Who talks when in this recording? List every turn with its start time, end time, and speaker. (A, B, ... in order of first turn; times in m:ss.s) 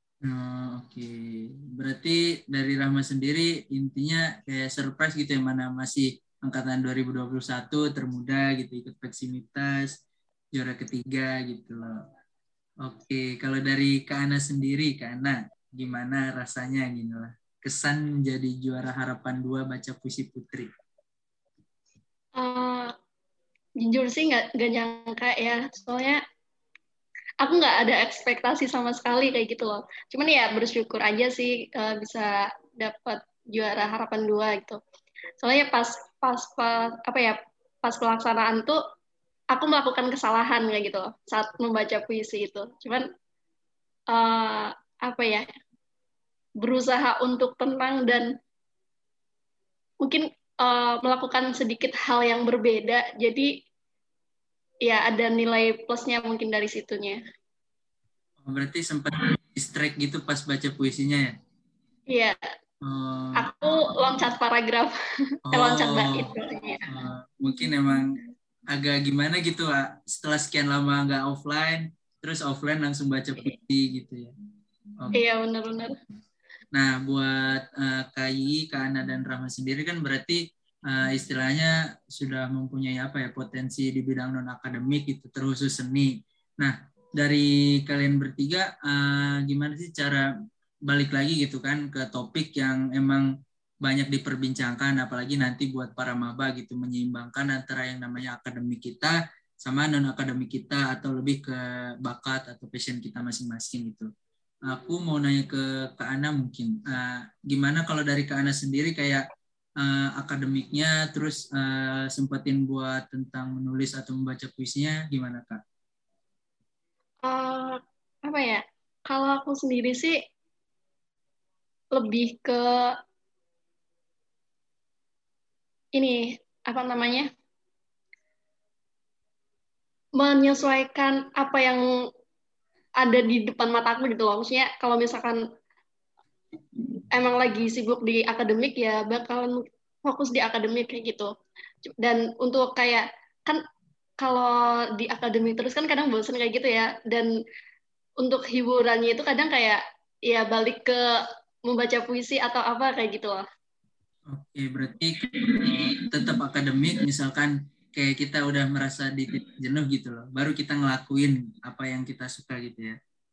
0:00.2-0:10.0 A
0:10.5-0:12.0 A
0:12.8-0:20.7 A
0:22.4-0:22.9 B
0:23.8-0:26.2 B
0:27.4-0:34.8 B
0:35.4-0:38.8 B
0:39.5-0:43.0 B
0:44.1-0:45.4 B
0:46.6-0:48.3 B
0:50.0-0:53.5 B
0:54.8-0:57.2 B
0:58.4-1:01.3 A
1:02.1-1:02.4 B
1:02.8-1:03.5 A
1:03.4-1:04.9 B
1:05.5-1:06.3 A
1:05.5-1:06.8 B
1:06.9-1:08.2 A
1:08.7-1:14.3 A
1:15.0-1:15.2 A
1:15.1-1:15.9 B
1:16.7-1:30.2 A
1:30.9-1:33.3 A
1:33.8-1:44.1 A
1:44.7-1:49.2 A
1:49.8-1:55.6 A
1:57.2-2:00.2 B
2:01.9-2:03.0 B
2:05.9-2:07.3 B
2:10.2-2:11.8 B
2:13.0-2:15.4 B
2:17.1-2:21.3 B
2:22.0-2:23.6 B
2:24.2-2:27.3 B
2:28.2-2:33.4 B
2:34.3-2:43.0 A